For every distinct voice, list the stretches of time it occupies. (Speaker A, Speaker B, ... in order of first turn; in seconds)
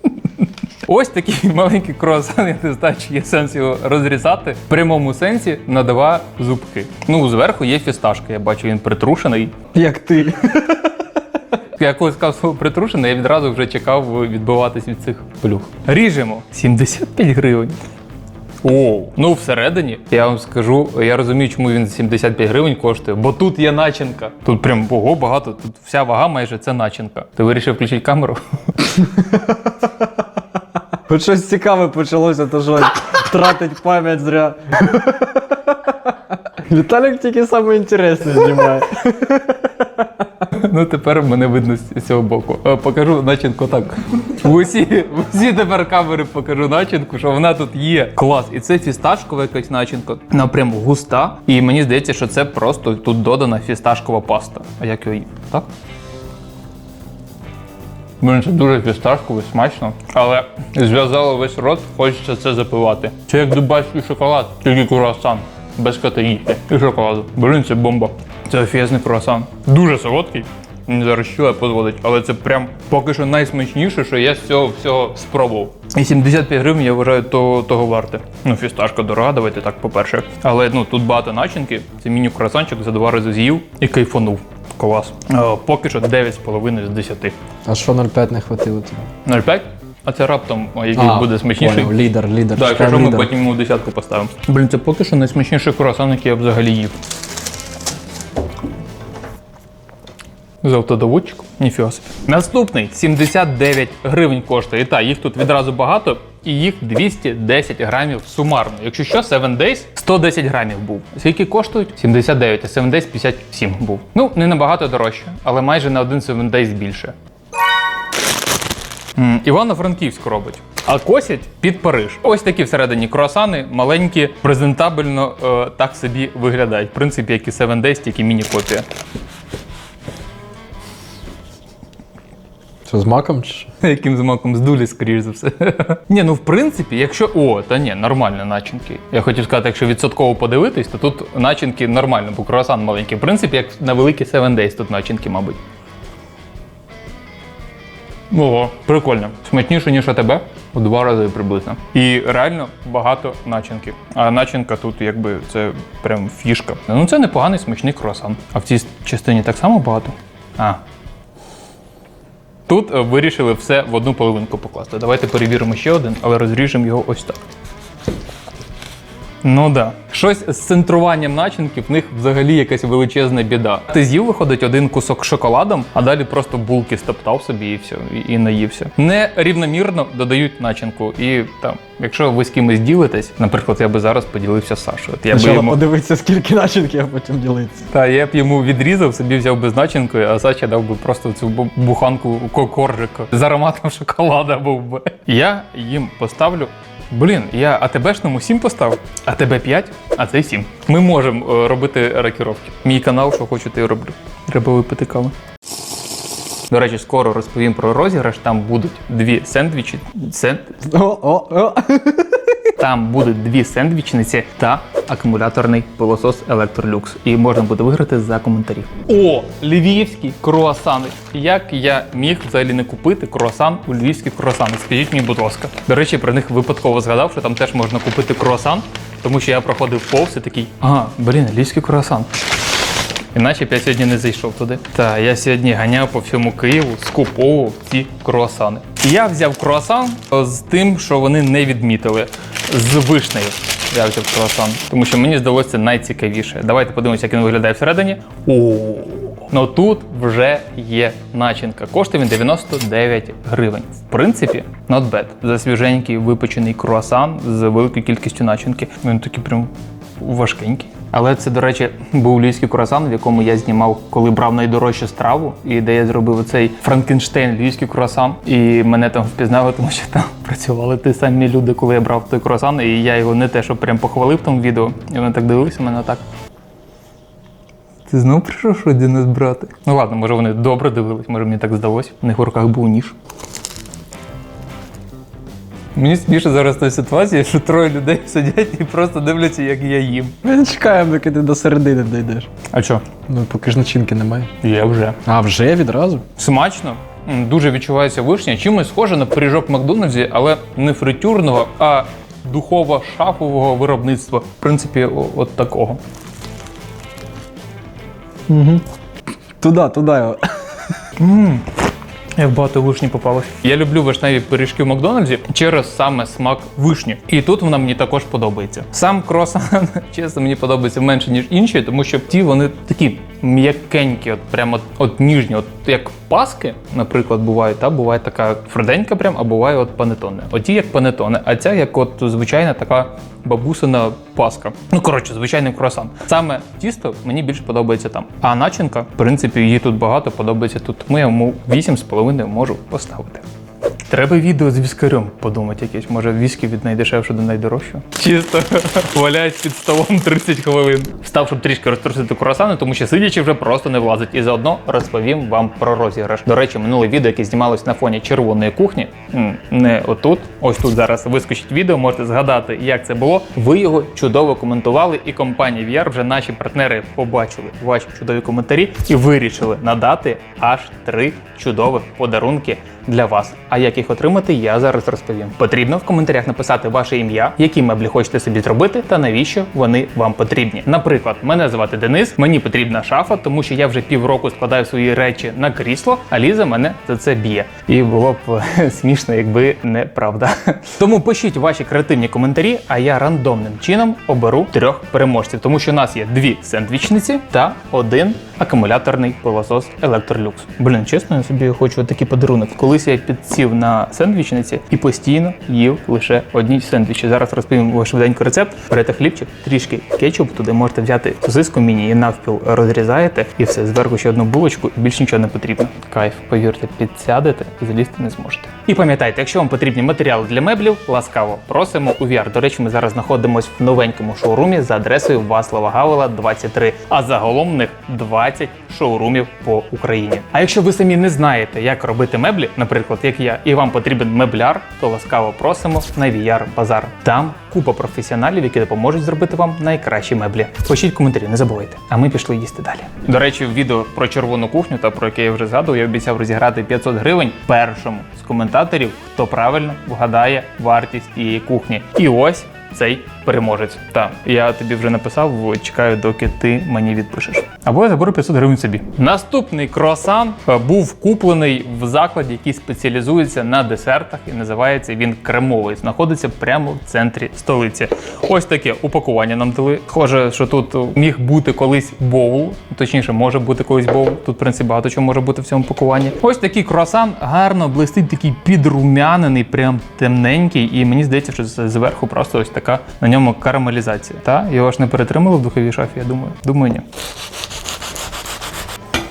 Speaker A: 0.4-9.6, 11.8-17.8, 18.6-28.4, 40.5-55.7, 58.2-87.3, 89.2-92.0, 92.5-97.0, 100.6-117.2, 119.2-128.9, 133.8-145.6, 148.3-160.8, 162.7-167.4, 169.4-185.8, 187.9-205.3, 206.7-210.7, 212.8-232.3, 233.3-276.2, 278.1-283.2, 285.9-290.4, 292.7-293.1, 294.6-295.2, 296.4-306.0, 311.2-311.7, 312.4-343.4, 344.1-487.1
Speaker B: 9.7-11.0, 28.9-30.2, 31.1-40.3, 87.7-89.1, 91.0-93.3, 132.8-133.7, 185.3-187.8, 210.8-212.6, 290.4-292.5, 293.3-294.5, 295.2-296.2, 308.5-308.8, 309.6-310.9